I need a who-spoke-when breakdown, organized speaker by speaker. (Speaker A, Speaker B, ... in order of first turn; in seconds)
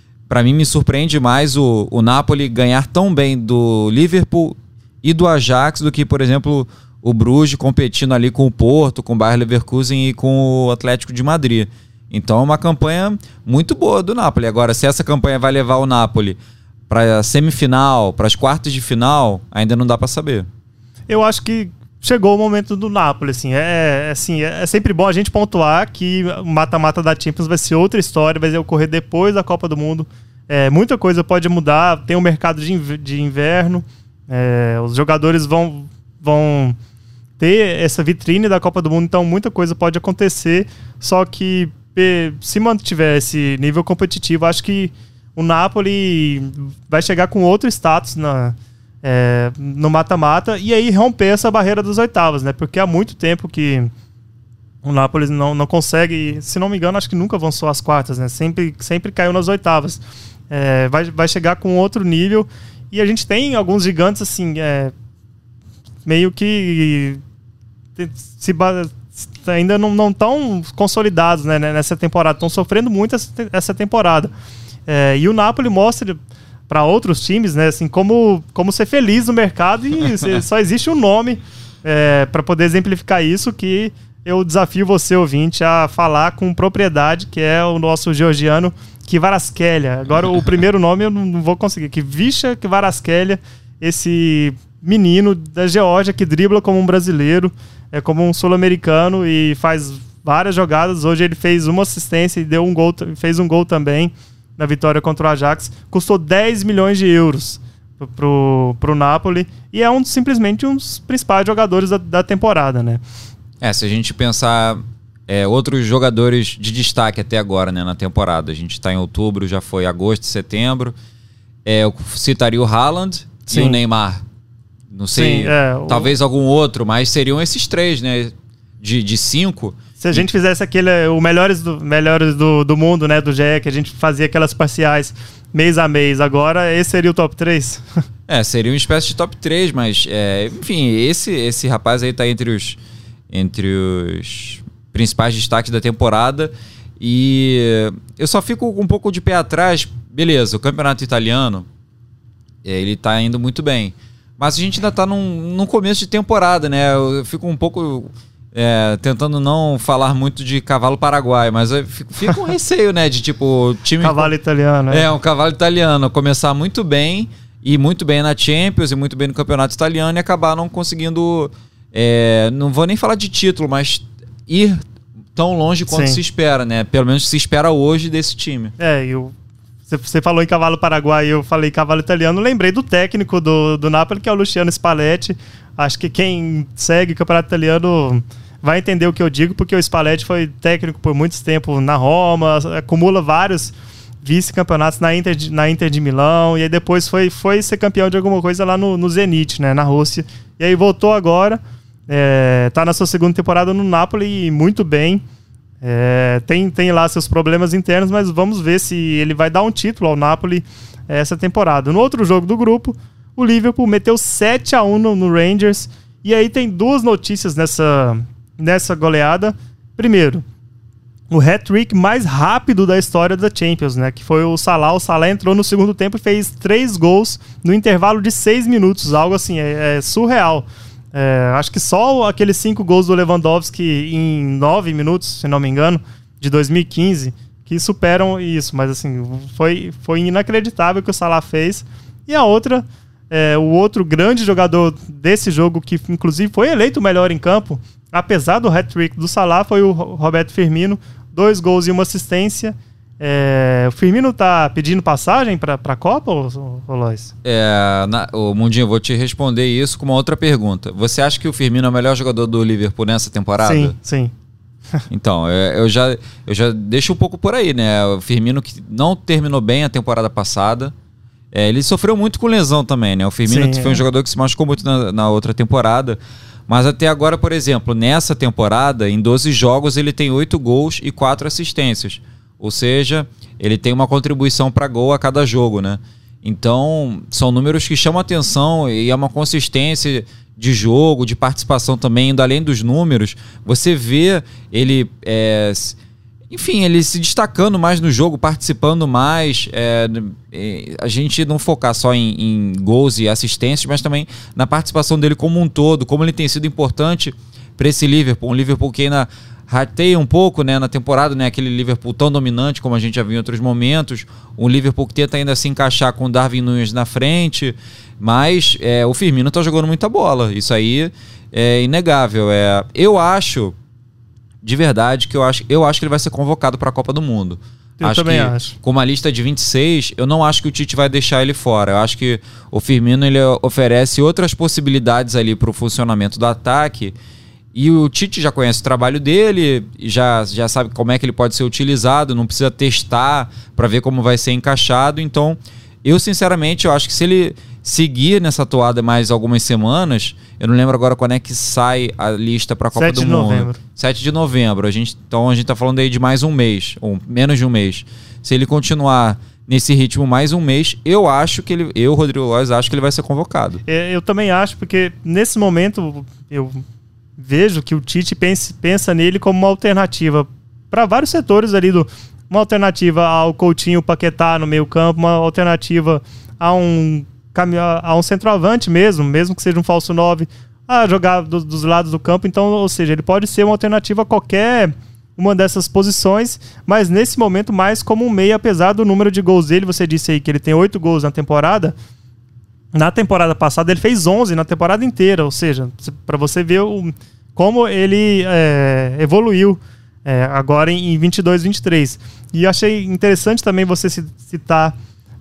Speaker A: 0.3-16.4, 16.9-20.5, 113.6-120.9, 121.7-124.2, 124.9-130.3, 138.3-142.8, 143.3-151.7, 152.6-164.3, 164.9-174.8, 175.4-178.7, 257.4-263.9, 265.1-270.9, 271.5-296.0, 296.5-323.7, 324.6-337.1, 337.7-363.8
Speaker B: 21.1-36.8, 37.4-53.9, 54.8-64.9, 66.0-67.2, 68.0-74.3, 74.9-76.2, 76.7-113.0, 123.5-123.8, 125.1-126.1, 130.0-137.8, 164.0-165.1, 175.9-176.2, 178.8-179.3, 179.9-205.2, 205.8-220.4, 221.3-257.3, 263.6-264.3, 273.5-274.0, 328.0-328.8, 352.9-353.8, 363.9-366.8, 367.4-391.9, 392.9-404.9